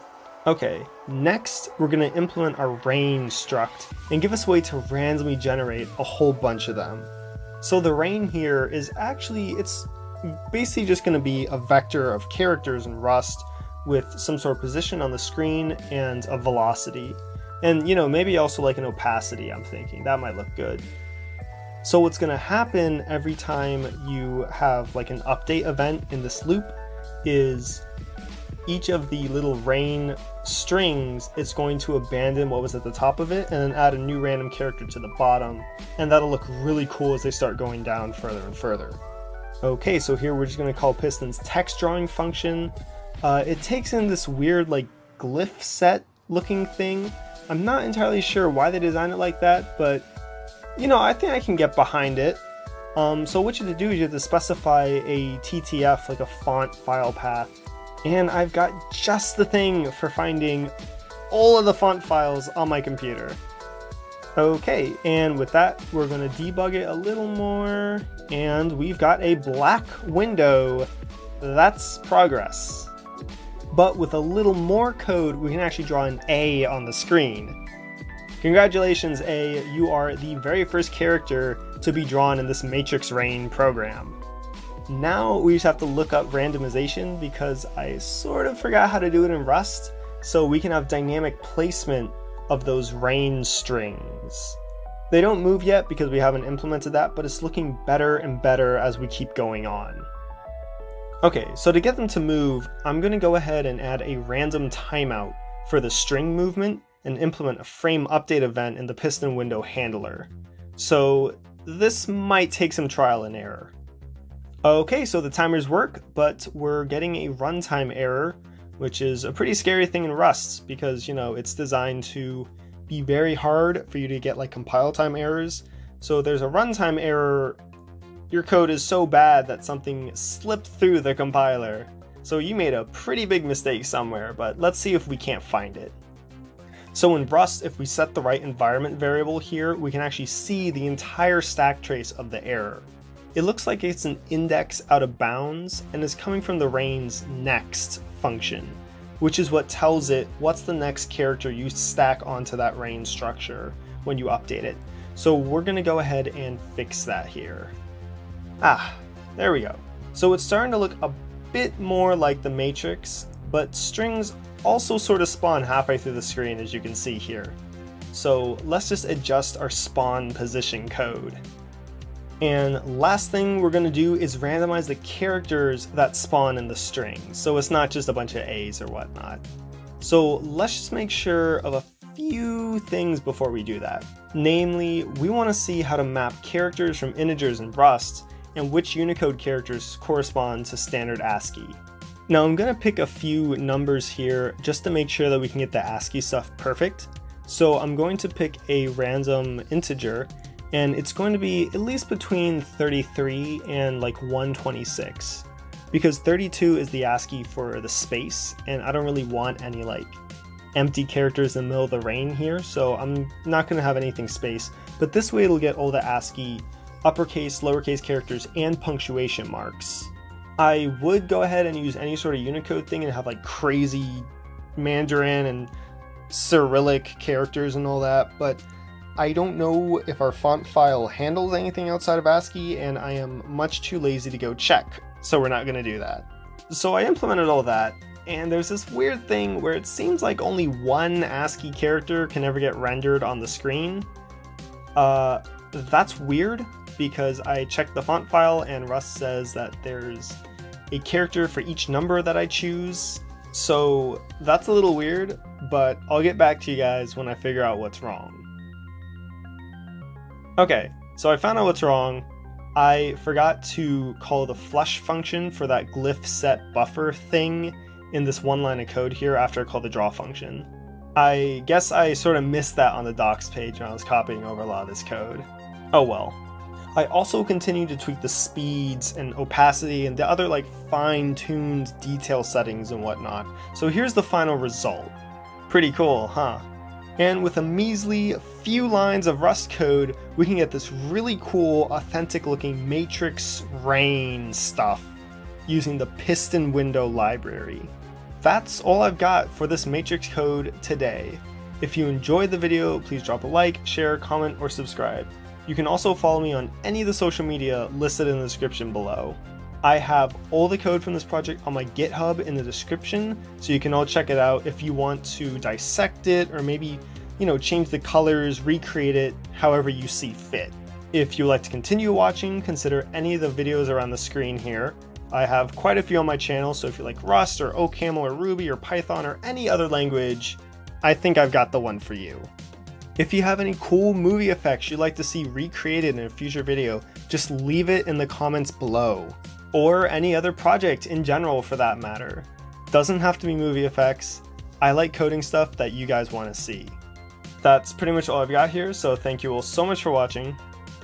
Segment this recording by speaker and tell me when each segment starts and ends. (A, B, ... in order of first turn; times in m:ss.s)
0:00.5-0:20.9 A
0:21.8-0:27.8 A
0:28.7-0:39.0 A
0:39.6-0:50.1 A
0:50.8-0:52.4 A
0:53.0-0:57.5 A
0:58.0-1:00.7 A
1:01.3-1:03.4 A
1:04.4-1:12.9 A
1:13.7-1:17.6 A
1:18.4-1:24.2 A
1:24.9-1:34.6 A
1:35.1-1:40.1 A
1:41.2-1:53.7 A
1:54.6-2:07.6 A
2:08.3-2:16.0 A
2:16.9-2:37.8 A
2:38.6-2:47.6 A
2:48.1-2:51.4 A
2:52.4-2:59.4 A
3:00.0-3:30.2 A
3:30.8-3:45.7 A
3:46.3-3:48.6 A
3:49.2-4:04.1 A
4:05.0-4:10.4 A
4:10.9-4:18.5 A
4:20.6-4:36.4 A
4:36.9-4:45.2 A
4:45.7-4:46.6 A
4:47.2-4:55.1 A
4:55.7-5:32.5 A
5:33.2-5:47.0 A
5:47.6-5:50.6 A